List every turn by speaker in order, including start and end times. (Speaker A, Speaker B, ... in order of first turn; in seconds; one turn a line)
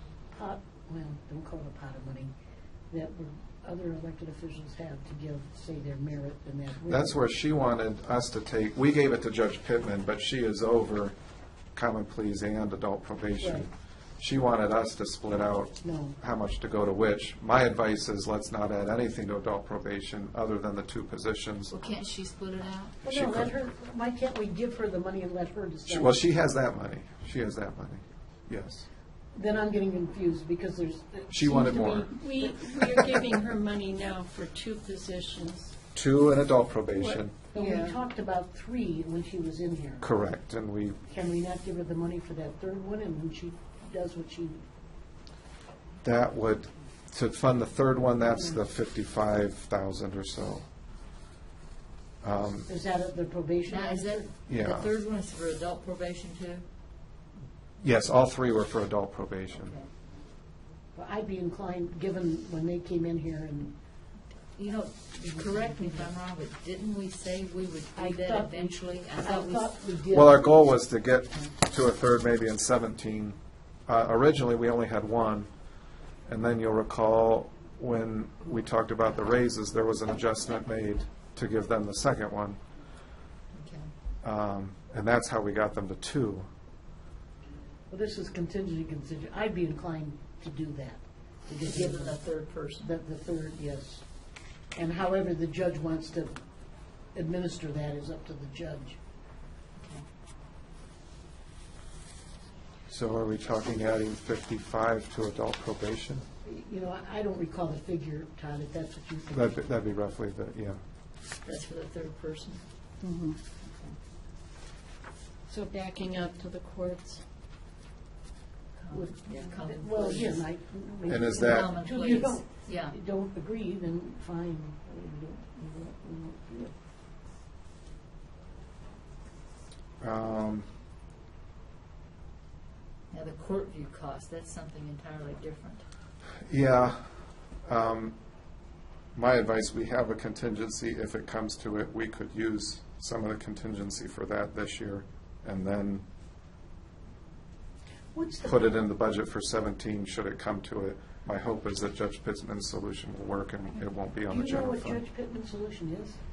Speaker A: 0.3-2.3
Speaker A: 2.9-7.2
Speaker B: 6.9-11.1
Speaker B: 11.7-21.7
Speaker A: 13.4-13.7
Speaker A: 15.8-16.1
Speaker C: 21.7-22.9
Speaker B: 23.0-23.5
Speaker A: 23.0-26.2
Speaker B: 25.9-28.9
Speaker A: 29.3-33.2
Speaker B: 31.3-32.1
Speaker D: 32.0-35.7
Speaker B: 35.9-37.4
Speaker D: 37.0-38.0
Speaker A: 37.5-40.1
Speaker B: 40.0-41.0
Speaker A: 41.1-44.6
Speaker B: 46.0-50.7
Speaker B: 52.2-52.7
Speaker A: 52.7-54.3
Speaker C: 53.7-56.6
Speaker B: 54.5-54.9
Speaker B: 57.8-59.8
Speaker C: 59.5-59.9
Speaker A: 60.9-63.7
Speaker C: 64.5-69.8
Speaker A: 65.2-66.1
Speaker A: 67.9-70.8
Speaker B: 70.1-75.5
Speaker B: 76.3-82.6
Speaker C: 83.5-83.9
Speaker B: 84.2-86.5
Speaker A: 87.9-92.2
Speaker C: 91.6-92.9
Speaker A: 92.8-94.0
Speaker A: 94.7-96.4
Speaker A: 97.1-99.0
Speaker C: 99.8-100.0
Speaker B: 102.9-106.2
Speaker A: 106.4-109.6
Speaker B: 109.3-110.8
Speaker C: 111.4-112.6
Speaker D: 113.0-113.4
Speaker C: 113.6-114.0
Speaker D: 115.5-117.2
Speaker C: 118.8-120.4
Speaker A: 118.9-126.7
Speaker B: 121.1-121.7
Speaker C: 121.2-122.9
Speaker B: 130.0-130.7
Speaker C: 133.1-135.8
Speaker B: 136.5-137.0
Speaker B: 137.7-138.2
Speaker B: 139.1-146.0
Speaker A: 148.1-148.8
Speaker B: 148.4-155.0
Speaker A: 154.3-156.2